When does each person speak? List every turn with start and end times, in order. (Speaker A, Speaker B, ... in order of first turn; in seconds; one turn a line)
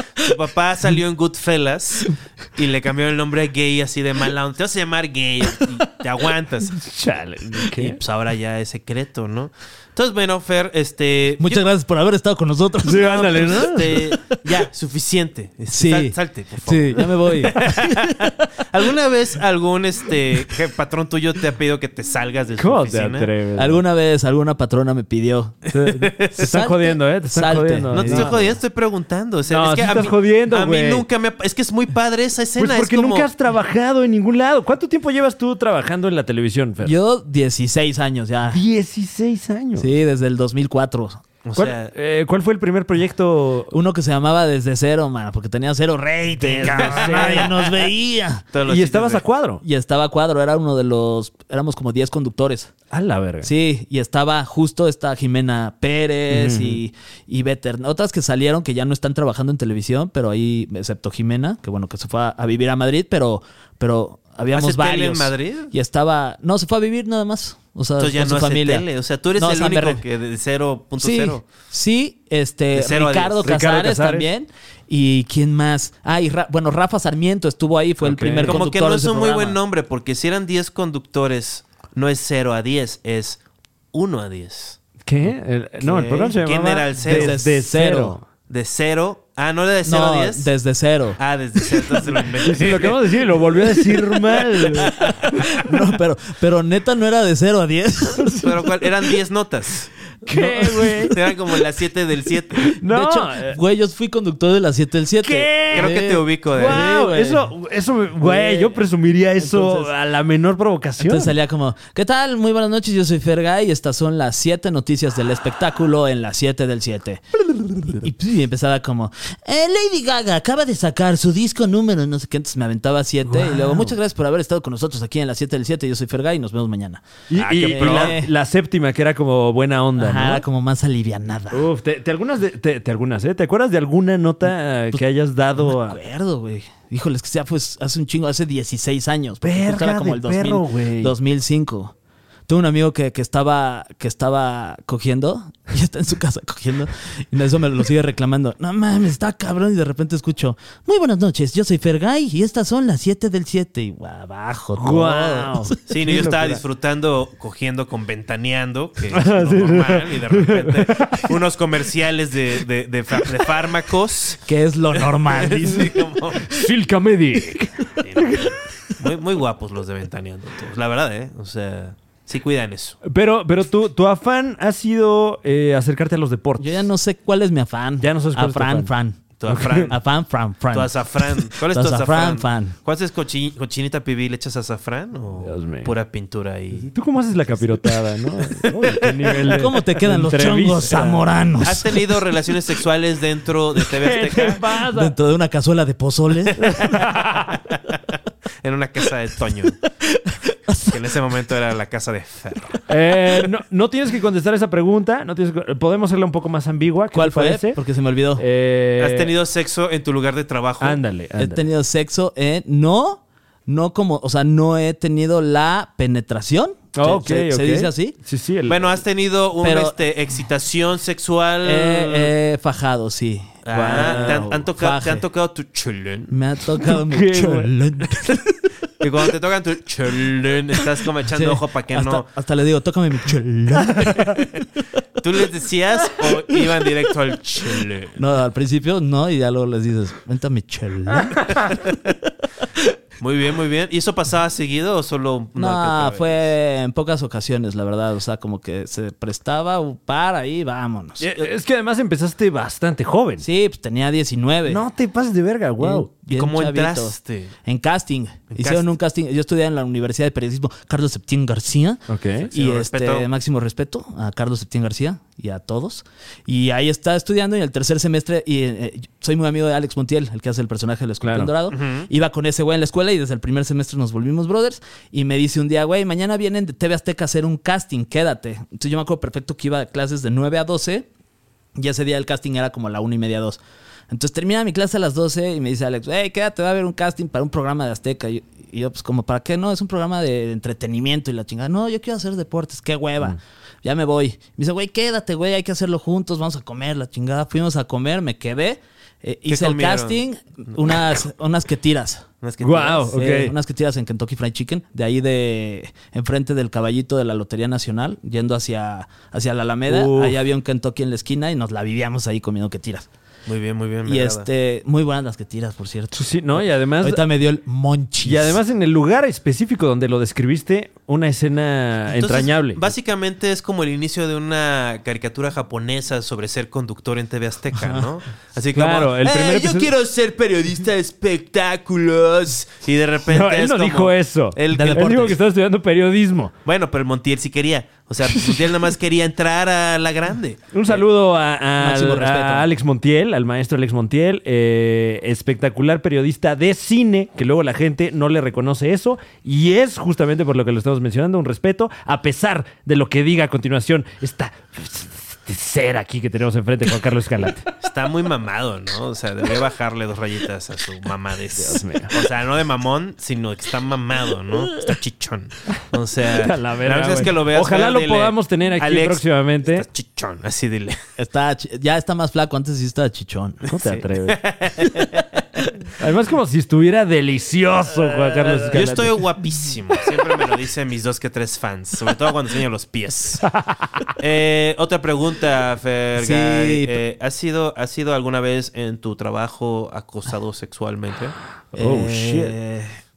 Speaker A: 0.2-6.8
Speaker B: 6.8-8.0
Speaker A: 7.8-11.6
Speaker C: 11.4-13.2
Speaker B: 12.8-14.2
Speaker A: 13.0-23.3
Speaker C: 15.7-18.4
Speaker B: 22.6-23.8
Speaker C: 23.6-25.7
Speaker A: 25.7-26.4
Speaker B: 25.7-28.4
Speaker C: 26.3-28.6
Speaker A: 27.9-33.3
Speaker B: 29.5-31.1
Speaker B: 32.6-36.9
Speaker C: 36.8-38.6
Speaker B: 38.5-39.9
Speaker C: 39.8-41.2
Speaker A: 41.4-41.9
Speaker B: 41.6-43.7
Speaker C: 43.7-48.5
Speaker B: 46.4-47.5
Speaker A: 46.6-47.8
Speaker A: 48.5-49.2
Speaker B: 48.7-49.6
Speaker C: 49.6-52.7
Speaker B: 52.9-53.5
Speaker C: 53.4-70.0
Speaker B: 56.3-56.8
Speaker A: 64.5-65.7
Speaker A: 68.0-71.5
Speaker C: 71.0-79.6
Speaker A: 72.7-73.5
Speaker B: 73.4-74.3
Speaker B: 78.0-78.6
Speaker A: 78.4-83.4
Speaker A: 83.9-84.8
Speaker B: 85.1-88.2
Speaker A: 85.8-87.4
Speaker C: 87.0-88.2
Speaker A: 88.5-90.5
Speaker C: 89.9-91.2
Speaker A: 91.2-93.3
Speaker B: 92.4-95.6
Speaker C: 94.6-98.5
Speaker A: 94.8-95.1
Speaker A: 98.4-99.9
Speaker B: 100.3-101.2
Speaker C: 100.3-101.2
Speaker A: 101.1-102.8
Speaker B: 102.7-103.6
Speaker C: 102.8-107.5
Speaker B: 105.2-111.3
Speaker A: 105.7-106.9
Speaker C: 108.2-108.8
Speaker C: 109.4-109.9
Speaker C: 111.0-117.3
Speaker B: 117.5-118.0
Speaker C: 117.9-127.1
Speaker B: 123.3-124.0
Speaker B: 127.3-130.4
Speaker A: 127.3-128.2
Speaker C: 127.6-128.3
Speaker C: 130.0-131.7
Speaker B: 131.5-136.0
Speaker C: 135.6-141.9
Speaker B: 139.4-141.2
Speaker C: 142.5-155.8
Speaker B: 154.8-156.6
Speaker A: 155.9-164.4
Speaker B: 159.1-161.3
Speaker C: 164.4-166.0
Speaker A: 164.9-166.5
Speaker B: 166.4-168.6
Speaker A: 168.0-173.0
Speaker B: 173.0-176.9
Speaker C: 176.6-179.2
Speaker B: 178.0-178.9
Speaker A: 179.4-180.0
Speaker B: 179.5-179.9
Speaker C: 179.7-182.8
Speaker A: 180.7-186.9
Speaker B: 185.4-185.9
Speaker B: 186.8-191.3
Speaker A: 188.7-189.5
Speaker C: 189.5-192.0
Speaker A: 191.6-194.6
Speaker B: 193.9-195.2
Speaker C: 194.9-196.8
Speaker A: 196.6-198.0
Speaker B: 196.6-197.6
Speaker A: 198.6-199.8
Speaker C: 200.0-201.0
Speaker A: 200.9-202.8
Speaker B: 202.9-207.8
Speaker C: 207.1-208.4
Speaker B: 208.4-209.3
Speaker A: 209.0-211.0
Speaker B: 210.8-211.7
Speaker C: 211.4-218.2
Speaker B: 216.9-218.9
Speaker A: 218.7-222.3
Speaker C: 219.6-220.0
Speaker C: 221.6-225.2
Speaker A: 223.7-226.3
Speaker B: 223.8-224.5
Speaker C: 226.3-228.6
Speaker B: 226.8-227.7
Speaker A: 229.0-232.3
Speaker C: 231.3-234.5
Speaker A: 235.2-238.2
Speaker C: 238.2-241.8
Speaker A: 243.2-246.4
Speaker C: 245.6-251.3
Speaker B: 251.2-253.4
Speaker C: 253.4-254.8
Speaker B: 254.7-256.1
Speaker C: 255.8-281.1
Speaker A: 256.3-257.5
Speaker A: 258.5-258.9
Speaker B: 262.1-262.5
Speaker A: 262.5-263.3
Speaker B: 271.2-271.5
Speaker A: 271.7-272.1
Speaker C: 281.8-302.3
Speaker A: 299.5-300.2
Speaker A: 300.7-301.1
Speaker A: 302.4-303.1
Speaker B: 302.6-303.5
Speaker C: 303.1-313.1
Speaker B: 309.9-310.4
Speaker A: 313.5-314.5
Speaker C: 314.1-318.6
Speaker B: 316.1-317.2
Speaker B: 318.2-322.8
Speaker A: 322.1-335.4
Speaker B: 328.7-329.9
Speaker B: 333.3-336.5
Speaker C: 334.7-335.3
Speaker A: 336.6-340.8
Speaker B: 338.3-338.7
Speaker B: 340.7-357.7
Speaker C: 341.8-342.7
Speaker A: 357.8-371.0
Speaker B: 361.6-362.1
Speaker B: 366.2-369.9
Speaker C: 371.2-373.7
Speaker A: 373.7-375.6
Speaker B: 373.7-374.9
Speaker B: 376.0-379.2
Speaker A: 378.2-383.5
Speaker B: 383.5-384.1
Speaker A: 384.2-391.4
Speaker C: 386.2-387.0
Speaker B: 391.7-392.6
Speaker C: 391.8-393.0